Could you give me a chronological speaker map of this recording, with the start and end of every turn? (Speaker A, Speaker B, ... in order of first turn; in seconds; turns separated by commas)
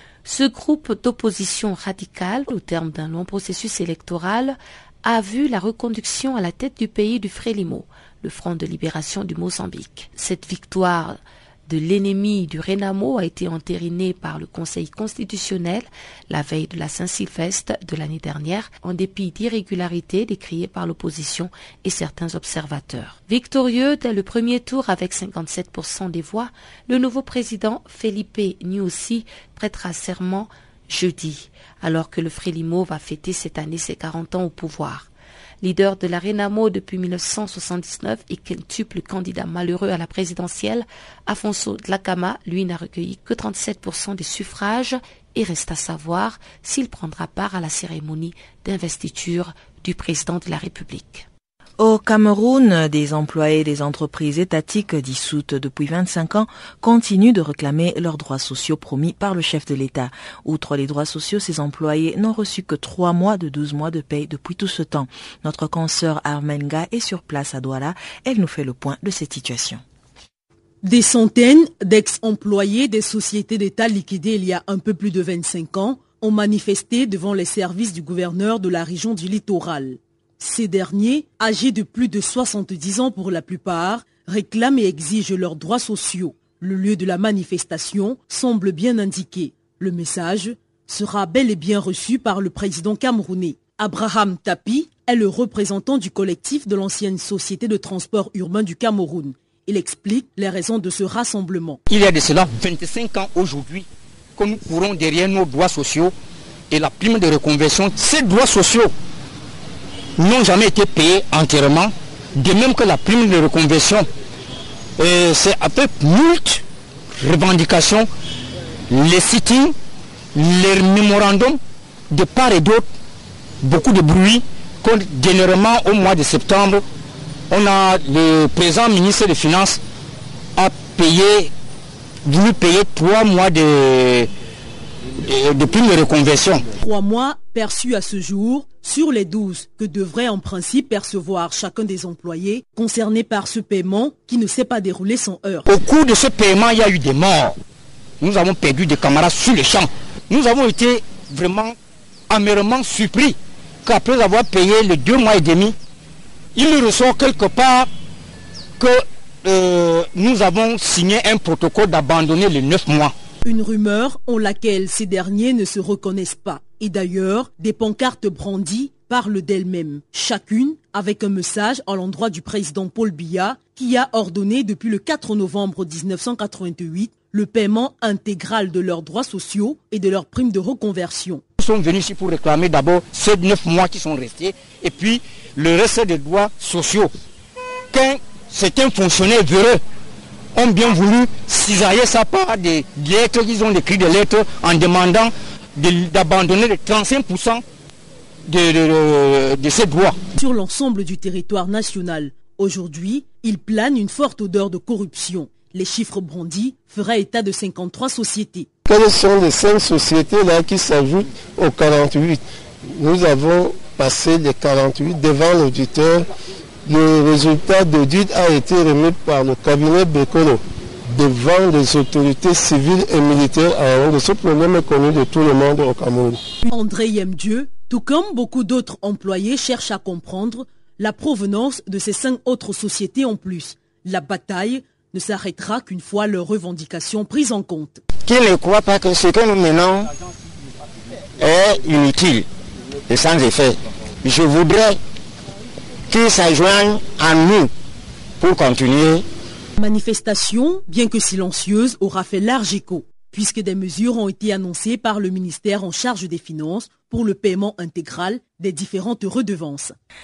Speaker A: 0.2-35.1, Speaker A: 35.6-51.2, Speaker B: 51.8-69.8, Speaker C: 70.8-101.8, Speaker D: 101.9-106.1, Speaker D: 106.7-108.9, Speaker D: 110.2-114.1, Speaker D: 115.0-116.6, Speaker D: 117.2-118.1, Speaker D: 118.9-119.7, Speaker D: 120.3-121.6, Speaker D: 122.1-122.9, Speaker D: 123.6-126.8, Speaker D: 127.5-129.8, Speaker D: 130.6-131.5, Speaker D: 132.2-134.3, Speaker D: 135.2-136.6, Speaker C: 136.8-145.6, Speaker D: 145.7-147.5, Speaker D: 148.2-151.7, Speaker D: 152.3-155.8, Speaker D: 156.6-157.9, Speaker D: 158.8-163.1, Speaker C: 163.4-181.4, Speaker D: 181.6-187.1, Speaker D: 187.9-189.8, Speaker D: 190.5-197.6, Speaker D: 198.5-200.2, Speaker C: 200.3-208.7, Speaker E: 208.8-216.2, Speaker E: 216.8-226.4, Speaker C: 226.7-238.0, Speaker D: 238.3-240.1, Speaker D: 241.4-242.4, Speaker D: 243.1-245.0, Speaker D: 246.1-247.7, Speaker D: 248.4-249.2, Speaker C: 249.8-259.9